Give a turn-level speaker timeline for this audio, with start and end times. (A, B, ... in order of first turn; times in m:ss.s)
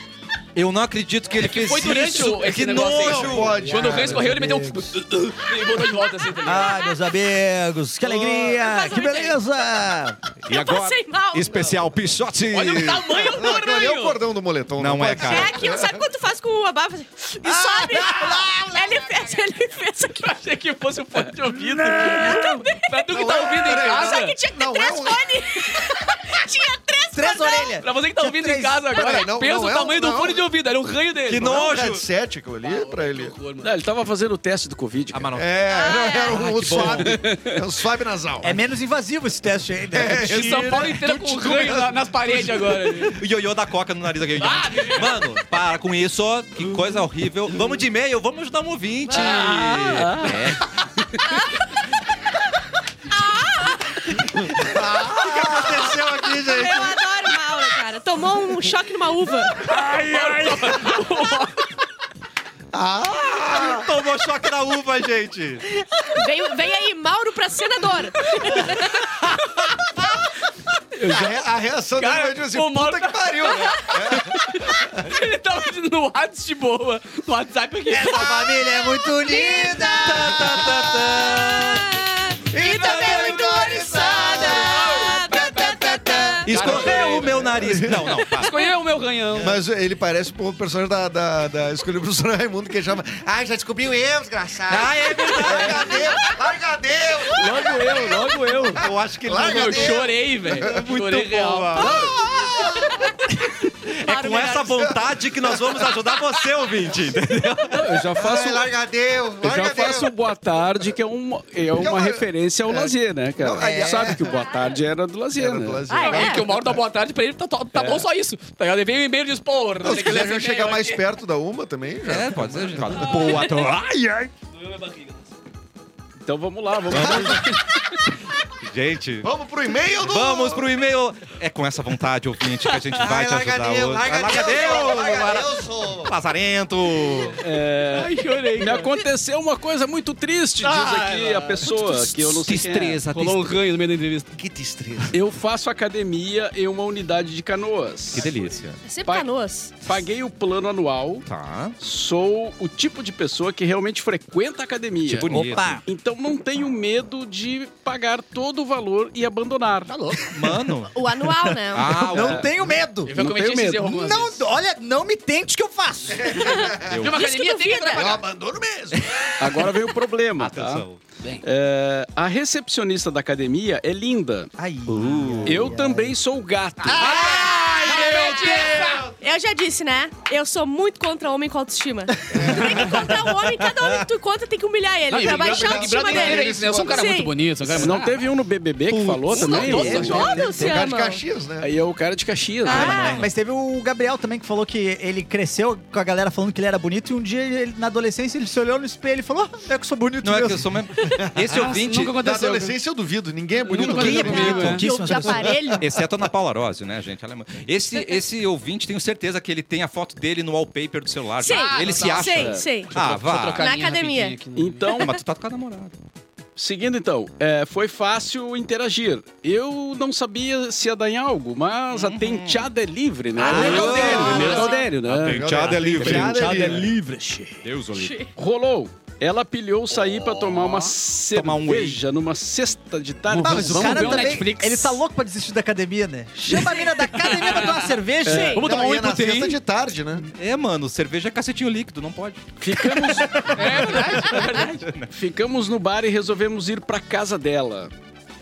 0:00.6-0:04.1 A
0:01.4-0:06.8 B
0:03.0-0:04.8 C
0:04.2-0:04.5 D
0:06.4-0:10.2 D
0:06.6-0:06.8 E
0:08.2-0:09.4 E
0:10.4-0:13.1 A
0:10.5-0:11.8 E
0:12.5-0:14.2 B
0:13.1-0:16.1 C
0:14.8-0:15.6 A
0:15.2-0:20.3 E
0:17.4-0:19.0 D
0:20.2-0:24.4 B
0:21.5-0:22.7 D
0:22.0-0:27.8 E
0:23.1-0:25.3 C
0:27.1-0:29.0 D
0:27.8-0:31.7 B
0:28.9-0:30.5 C
0:31.3-0:32.0 A
0:31.4-0:33.4 C
0:32.6-0:33.8 B
0:33.6-0:35.3 F
0:35.1-0:35.6 A
0:35.4-0:38.6 C
0:35.7-0:36.4 E
0:36.3-0:37.2 A
0:36.8-0:37.6 F
0:38.4-0:41.4 D
0:39.9-0:41.9 C
0:40.2-0:43.2 B
0:43.1-0:50.8 A
0:44.4-0:45.2 B
0:49.1-0:50.1 E
0:50.0-0:50.5 B
0:51.2-0:51.8 E
0:53.1-0:54.2 E
0:54.6-0:57.1 A
0:55.0-0:55.8 C
0:55.6-0:59.7 E
0:59.7-1:01.7 B
0:59.8-1:00.9 A
1:02.7-1:03.9 C
1:03.4-1:05.6 A
1:06.1-1:09.0 E
1:11.0-1:14.9 C
1:11.0-1:11.3 B
1:12.0-1:18.4 B
1:17.9-1:21.5 D
1:18.6-1:26.5 E
1:20.0-1:21.9 A
1:22.5-1:26.4 D
1:22.7-1:25.0 C
1:22.9-1:23.3 A
1:24.9-1:25.3 B
1:25.9-1:28.1 C
1:26.4-1:28.6 A
1:26.5-1:27.5 B
1:28.1-1:29.6 B
1:29.4-1:40.8 C
1:34.7-1:36.2 A
1:35.7-1:36.1 E
1:37.3-1:38.8 F
1:38.7-1:42.2 A
1:39.4-1:42.1 B
1:41.8-1:43.1 C
1:43.9-1:48.1 A
1:44.1-1:44.7 E
1:44.4-1:46.5 C
1:47.7-1:48.7 F
1:48.1-1:50.2 C
1:49.4-1:55.8 F
1:51.7-1:54.5 C
1:53.6-1:54.2 D
1:55.4-1:56.8 C
1:55.9-1:56.4 E
1:56.0-2:01.0 B
1:57.8-1:58.0 F
1:59.8-2:03.4 C
2:02.0-2:04.0 A
2:04.6-2:05.2 B
2:06.2-2:07.7 F
2:06.9-2:07.5 A
2:06.9-2:07.4 C
2:08.6-2:09.3 A
2:09.2-2:10.7 C
2:10.0-2:17.4 A
2:13.0-2:16.1 C
2:17.4-2:23.0 F
2:17.9-2:18.9 B
2:20.6-2:23.6 A
2:23.1-2:24.3 B
2:24.3-2:25.2 C
2:25.1-2:28.3 F
2:28.1-2:28.8 A
2:28.8-2:29.8 E
2:29.8-2:31.3 F
2:31.3-2:31.8 A
2:31.8-2:39.9 F
2:35.0-2:35.8 A
2:35.3-2:35.8 D
2:39.9-2:40.2 B
2:40.3-2:41.0 A
2:40.9-2:42.0 E
2:41.4-2:43.2 D
2:41.7-2:42.5 A
2:42.1-2:42.5 F
2:43.1-2:44.4 B
2:43.1-2:43.9 F
2:43.8-2:46.6 D
2:46.1-2:47.0 C
2:46.3-2:48.2 E
2:46.9-2:48.2 B
2:47.9-2:49.4 C
2:49.4-2:50.9 F
2:50.4-2:51.0 A
2:51.2-2:51.4 B
2:51.4-2:54.5 F
2:54.6-2:56.1 D
2:54.9-2:55.7 A
2:55.4-2:57.2 F
2:56.8-2:59.0 B
2:56.9-3:07.3 E
2:57.0-2:59.1 A
3:02.3-3:03.1 C
3:02.4-3:03.2 D
3:05.1-3:08.2 B
3:05.1-3:07.1 C
3:07.7-3:10.2 F
3:08.9-3:10.9 D
3:09.3-3:10.4 B
3:09.5-3:11.2 E
3:10.5-3:11.7 C
3:11.6-3:13.2 F
3:12.6-3:13.2 E
3:12.7-3:13.3 A
3:12.7-3:20.7 D
3:20.2-3:22.2 A
3:21.0-3:22.8 B
3:21.2-3:21.7 C
3:22.2-3:25.6 C
3:23.6-3:24.8 B
3:23.7-3:25.8 D
3:24.2-3:25.8 E
3:25.8-3:33.7 A
3:28.0-3:28.2 E
3:31.4-3:32.9 E
3:31.5-3:35.0 B
3:33.6-3:34.4 E
3:34.6-3:35.2 F
3:34.9-3:35.9 A
3:36.6-3:47.0 F
3:41.9-3:42.7 A
3:43.4-3:46.9 A
3:43.4-3:44.9 E
3:43.4-3:44.1 D
3:43.8-3:46.8 C
3:44.1-3:44.4 B
3:46.1-3:47.6 D
3:47.6-3:48.3 A
3:48.0-3:48.3 E
3:48.3-3:54.4 F
3:50.2-3:50.9 B
3:51.3-3:52.0 A
3:53.3-3:55.0 B
3:53.4-3:58.6 D
3:56.5-3:58.0 B
3:58.2-3:58.6 F
3:58.3-3:58.6 E
3:58.5-3:59.6 B
3:58.6-4:00.3 C
4:00.3-4:05.2 A
4:02.6-4:04.3 F
4:03.5-4:04.8 B
4:05.1-4:07.9 F